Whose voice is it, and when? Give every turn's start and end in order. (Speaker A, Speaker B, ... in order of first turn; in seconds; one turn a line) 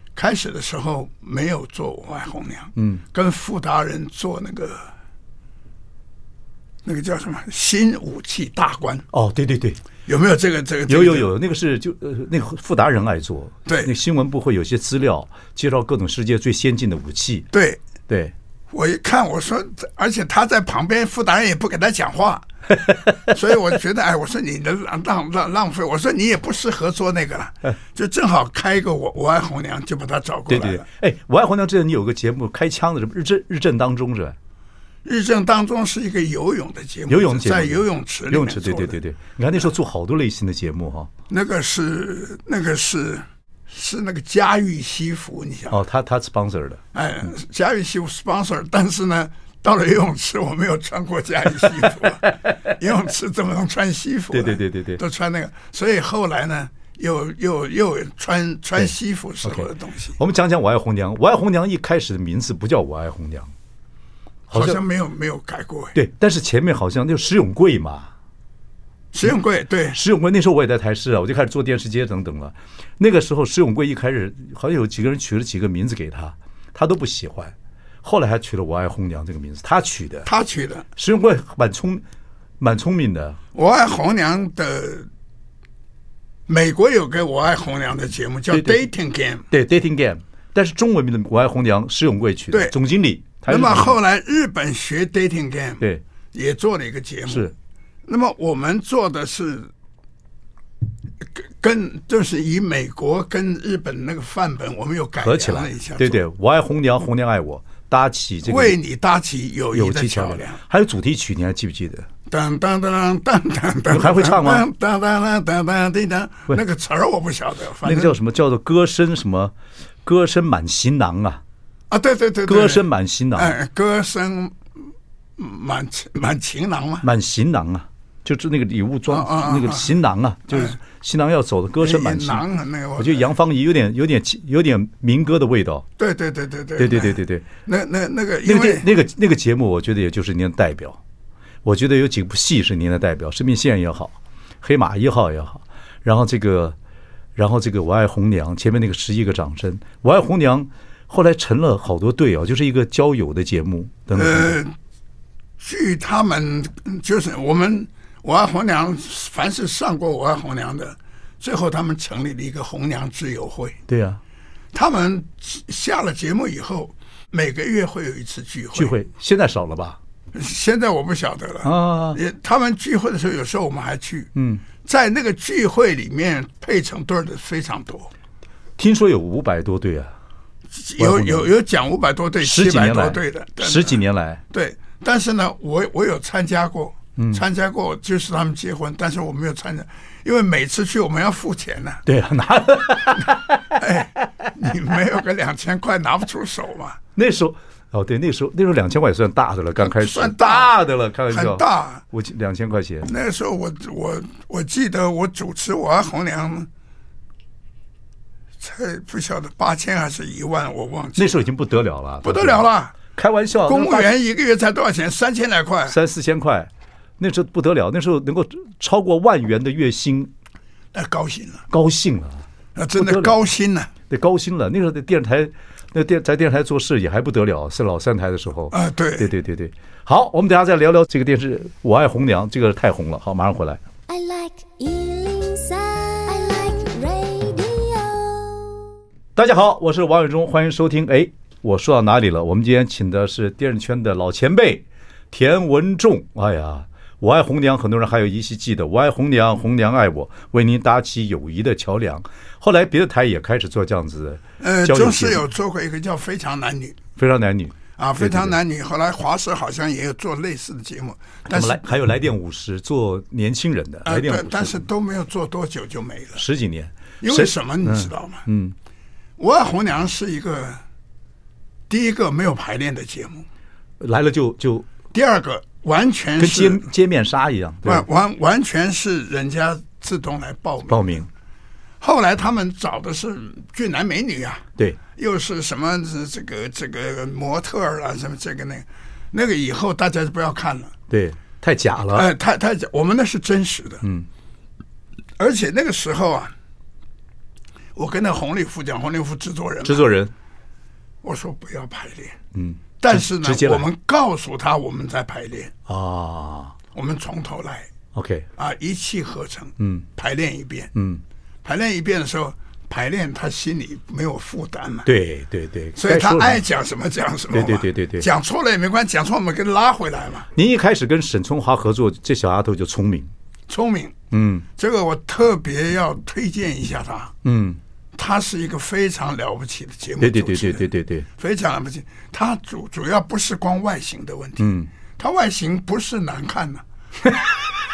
Speaker A: 0.1-4.9
Speaker B: 2.8-3.0
Speaker A: 6.8-9.1
Speaker B: 9.1-9.8
Speaker A: 10.1-11.3
Speaker B: 10.9-17.5
Speaker A: 13.7-13.9
Speaker A: 17.5-17.8
Speaker B: 18.1-18.3
Speaker A: 18.7-30.9
Speaker B: 22.9-23.2
Speaker B: 30.5-34.4
Speaker A: 35.0-39.0
Speaker B: 37.1-41.1
Speaker A: 41.3-45.8
Speaker B: 45.7-46.8
Speaker A: 46.9-60.2
Speaker B: 51.8-52.7
Speaker B: 54.3-55.0
Speaker B: 59.4-63.5
Speaker B: 64.5-64.8
Speaker A: 64.5-65.9
Speaker B: 65.9-68.1
Speaker A: 69.1-70.0
Speaker B: 69.9-80.3
Speaker A: 80.2-80.9
Speaker B: 80.9-82.0
Speaker B: 82.6-83.4
Speaker A: 83.5-85.1
Speaker A: 86.5-89.5
Speaker B: 88.5-88.8
Speaker B: 89.5-94.0
Speaker A: 93.5-97.5
Speaker B: 97.3-97.5
Speaker A: 98.0-99.7
Speaker A: 101.2-106.2
Speaker B: 105.2-108.8
Speaker A: 108.4-110.6
Speaker B: 109.7-112.1
Speaker A: 112.3-118.2
Speaker B: 113.9-114.7
Speaker B: 117.8-119.5
Speaker B: 120.0-121.4
Speaker A: 121.9-124.6
Speaker B: 122.5-123.5
Speaker A: 125.4-127.0
Speaker B: 127.0-132.4
Speaker A: 129.1-129.9
Speaker A: 130.5-130.8
Speaker A: 131.8-133.3
Speaker B: 133.0-135.8
Speaker A: 136.0-138.8
Speaker B: 136.8-137.5
Speaker B: 138.4-141.0
Speaker B: 141.6-146.8
Speaker B: 147.3-154.5
Speaker A: 154.1-154.7
Speaker A: 155.6-163.8
Speaker B: 163.9-164.2
Speaker A: 164.7-168.9
Speaker B: 168.7-170.0
Speaker A: 170.3-178.1
Speaker B: 171.6-172.2
Speaker B: 174.3-174.6
Speaker B: 178.8-180.1
Speaker A: 180.7-192.0
Speaker B: 181.0-181.5
Speaker B: 182.4-184.4
Speaker B: 187.2-187.4
Speaker B: 192.0-193.7
Speaker A: 193.7-197.0
Speaker B: 197.2-203.1
Speaker A: 199.8-200.8
Speaker A: 201.3-202.0
Speaker A: 203.1-206.7
Speaker A: 208.6-211.4
Speaker B: 211.2-214.1
Speaker A: 212.2-212.9
Speaker A: 213.7-216.0
Speaker B: 215.9-220.3
Speaker A: 220.9-221.7
Speaker B: 221.7-222.4
Speaker A: 222.8-223.9
Speaker B: 222.9-223.3
Speaker B: 224.1-233.8
Speaker A: 228.7-229.3
Speaker C: 234.1-238.8
Speaker B: 239.3-255.4
Speaker A: 254.6-257.0
Speaker B: 257.2-258.5
Speaker A: 258.0-261.8
Speaker B: 261.5-264.8
Speaker A: 264.0-266.4
Speaker B: 266.4-268.8
Speaker A: 267.2-268.4
Speaker A: 269.4-270.8
Speaker A: 271.9-273.4
Speaker B: 274.0-274.9
Speaker A: 275.1-276.9
Speaker B: 276.4-278.0
Speaker A: 277.8-281.0
Speaker B: 280.9-281.3
Speaker A: 282.0-290.9
Speaker B: 291.1-292.3
Speaker A: 292.1-294.0
Speaker B: 294.0-294.3
Speaker A: 295.4-296.5
Speaker A: 297.9-300.1
Speaker B: 299.8-300.3
Speaker A: 301.2-302.4
Speaker B: 302.5-303.9
Speaker A: 303.0-305.7
Speaker B: 305.9-306.8
Speaker A: 306.9-307.9
Speaker B: 308.1-308.5
Speaker A: 308.6-310.9
Speaker B: 309.8-310.1
Speaker B: 310.9-311.2
Speaker A: 311.6-315.1
Speaker B: 315.0-316.6
Speaker A: 315.9-320.5
Speaker B: 317.5-318.3
Speaker B: 320.5-323.3
Speaker A: 323.7-324.2
Speaker B: 324.3-324.6
Speaker A: 324.7-327.3
Speaker B: 327.4-327.8
Speaker A: 328.1-330.8
Speaker B: 330.2-331.2
Speaker A: 331.4-336.8
Speaker B: 334.6-334.9